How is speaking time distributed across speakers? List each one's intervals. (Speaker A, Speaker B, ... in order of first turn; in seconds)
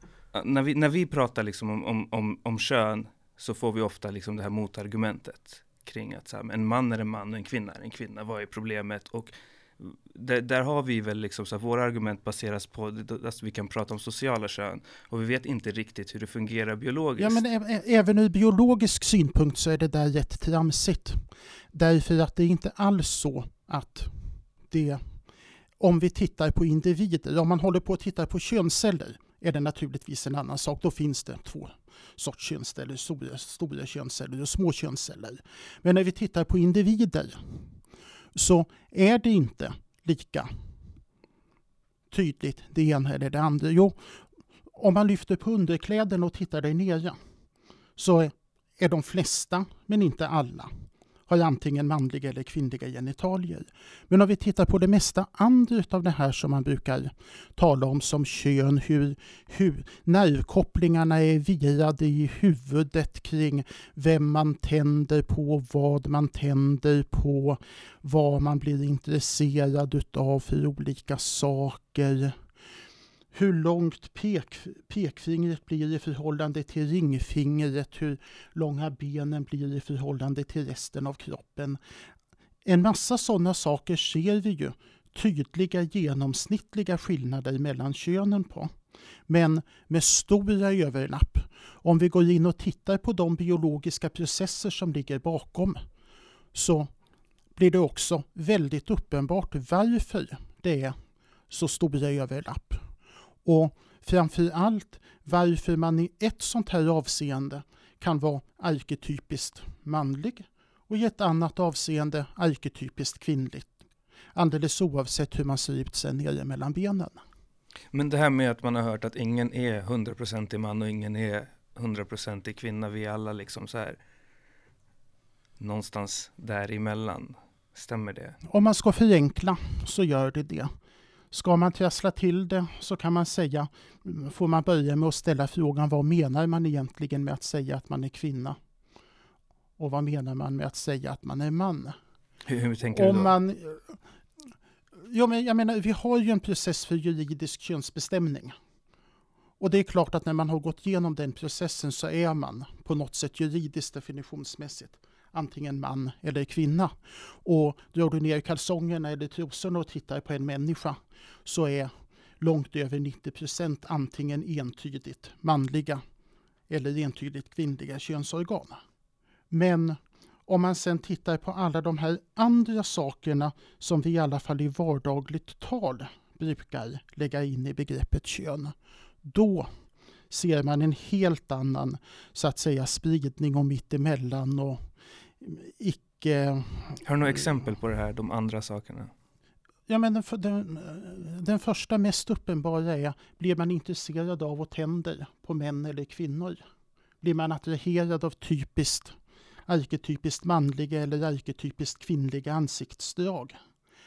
Speaker A: 0.3-17.4, 117.9-124.0, 125.6-128.4, 142.5-143.3, 187.0-189.1
Speaker B: 17.2-24.1, 24.7-25.0, 25.8-37.6, 38.4-40.5, 42.1-44.0, 44.7-47.2, 48.0-72.4, 73.3-81.8, 82.7-88.7, 89.3-95.8, 96.5-96.9, 97.6-101.0, 101.5-102.9, 103.5-113.7, 114.3-117.2, 128.5-130.7, 131.3-138.6, 139.8-142.0, 142.9-144.0, 145.0-148.6, 149.6-166.0, 166.7-168.8, 169.5-179.7, 180.3-184.9, 185.4-187.0, 189.9-196.6, 197.2-203.6